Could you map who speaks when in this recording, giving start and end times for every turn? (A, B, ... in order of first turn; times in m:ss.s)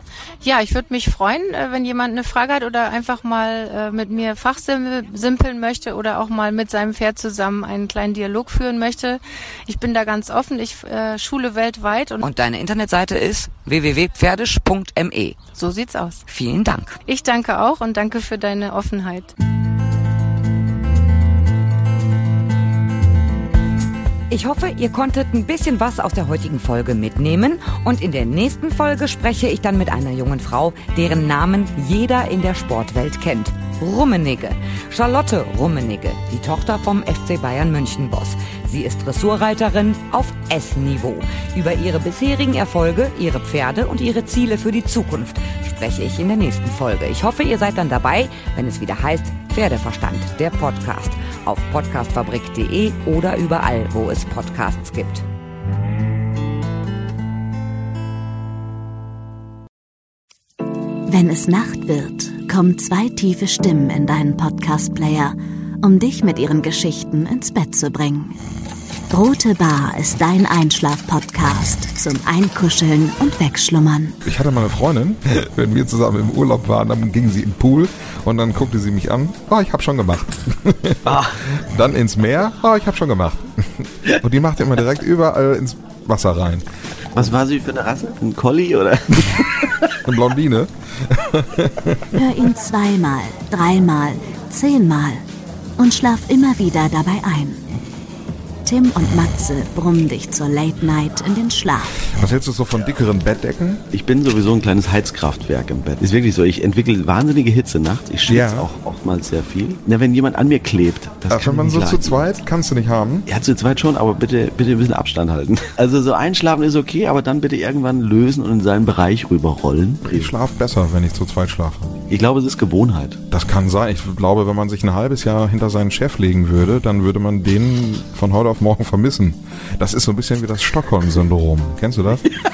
0:00.4-0:12.2 A
0:12.2-0:15.4 B
0:15.6-0:16.2 A
0:16.3-0:17.0 B
0:17.1-0:19.3 A
0:24.3-0:55.2 B
1:01.1-1:08.4 C
1:09.1-1:14.2 C
1:14.2-1:26.6 D
1:21.1-1:21.4 E
1:27.2-1:29.7 E
1:30.0-1:32.0 D
1:32.1-1:35.2 C
1:35.8-1:37.6 C
1:38.6-1:42.0 C
1:42.1-1:43.8 D
1:43.9-1:52.3 E
1:48.3-1:48.7 D
1:51.3-1:53.2 D
1:53.3-2:00.3 E
2:00.1-2:02.0 D
2:02.1-2:03.2 E
2:03.3-2:12.3 D